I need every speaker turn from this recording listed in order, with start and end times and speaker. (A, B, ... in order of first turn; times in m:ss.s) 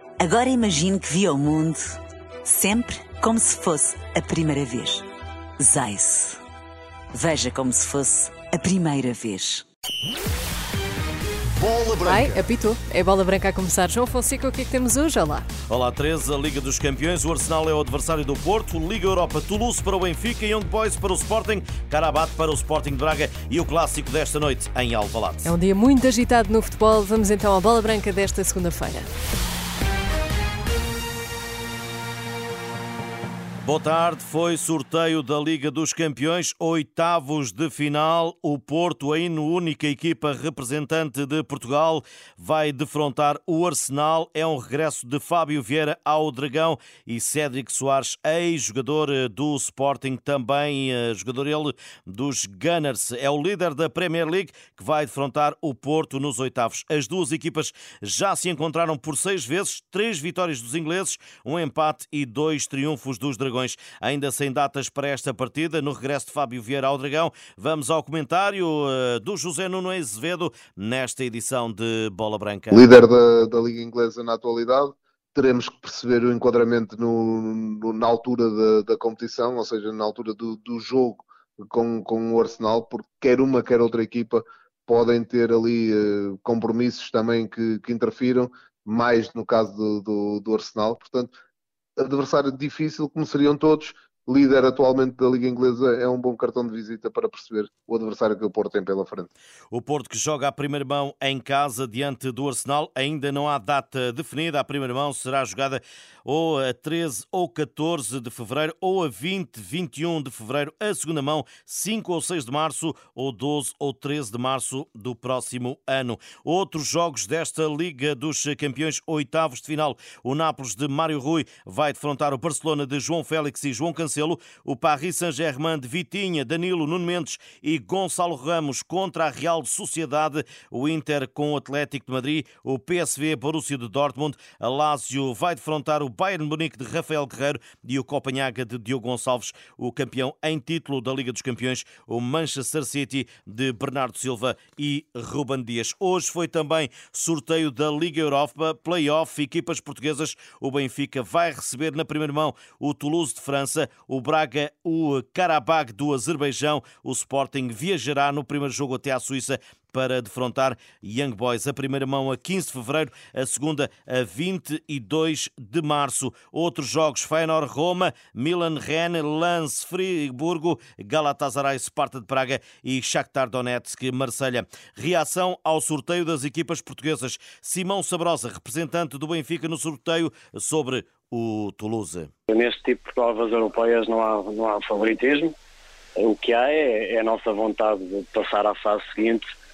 0:00.2-0:05.0 A
0:05.6-0:06.4 A
0:07.1-0:09.6 A
0:11.6-0:12.4 B
0:12.0-0:15.5 C
0:15.7-0:25.5 B
0:25.4-0:29.1 C
0:33.6-1:12.9 B
1:12.7-1:31.3 D
1:32.0-1:39.3 D
1:39.7-3:02.3 B
3:02.5-3:05.5 E
3:06.2-3:09.4 E